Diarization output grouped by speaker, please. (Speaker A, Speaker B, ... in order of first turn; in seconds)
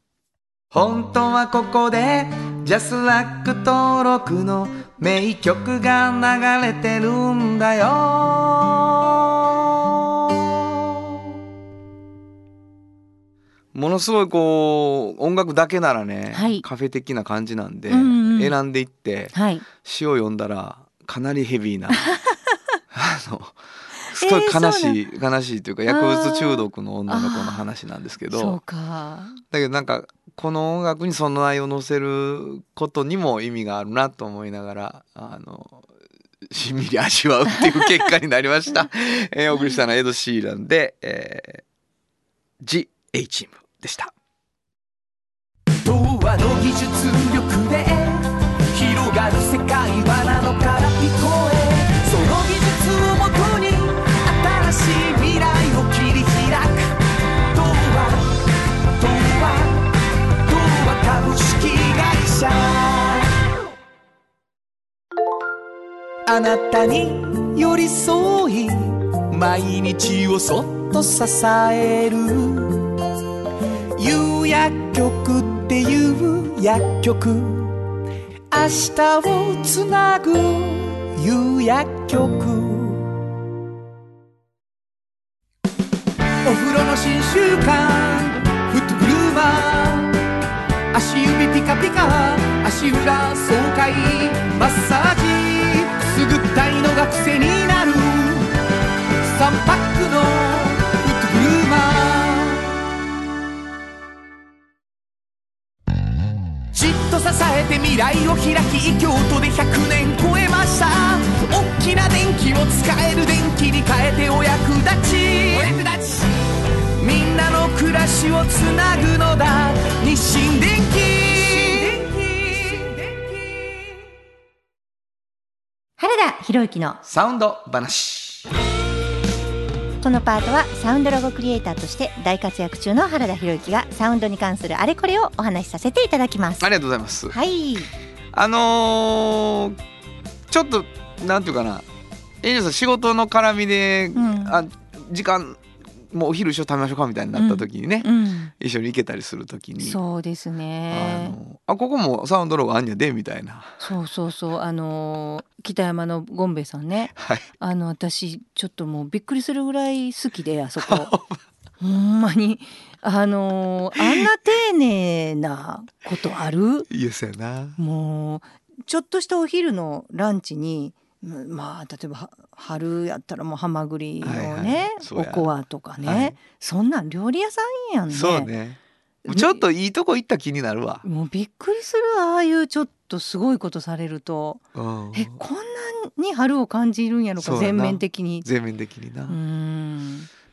Speaker A: 0.7-10.4, 13.7-22.1, 22.9-23.6, 24.1-28.6, 29.5-35.8, 36.5-41.6, 42.6-44.1, 127.1-128.5, 136.6-137.4, 138.3-139.8, 140.5-141.8, 142.4-148.1, 148.6-150.0, 150.9-153.8, 157.2-157.4, 160.8-161.4, 164.0-164.2, 166.9-167.8, 174.2-175.5, 176.0-176.3, 178.1-181.0, 184.8-185.4, 187.4-189.4
Speaker B: 16.3-16.6, 17.9-18.6, 19.3-19.6, 24.1-25.0, 25.9-27.6, 28.3-29.4, 126.0-127.0, 130.0-136.7, 137.3-137.9, 144.2-144.6, 147.3-148.5, 149.8-151.4, 153.8-161.1, 161.8-166.9, 167.8-178.5, 179.2-179.6, 181.0-188.5, 189.3-190.3
Speaker C: 45.8-57.0, 57.5-58.3, 59.0-59.8, 60.5-63.3, 66.3-73.0, 74.0-77.8, 78.5-83.1, 86.4-90.2, 90.9-98.5, 99.2-102.8, 106.7-116.3, 117.0-123.7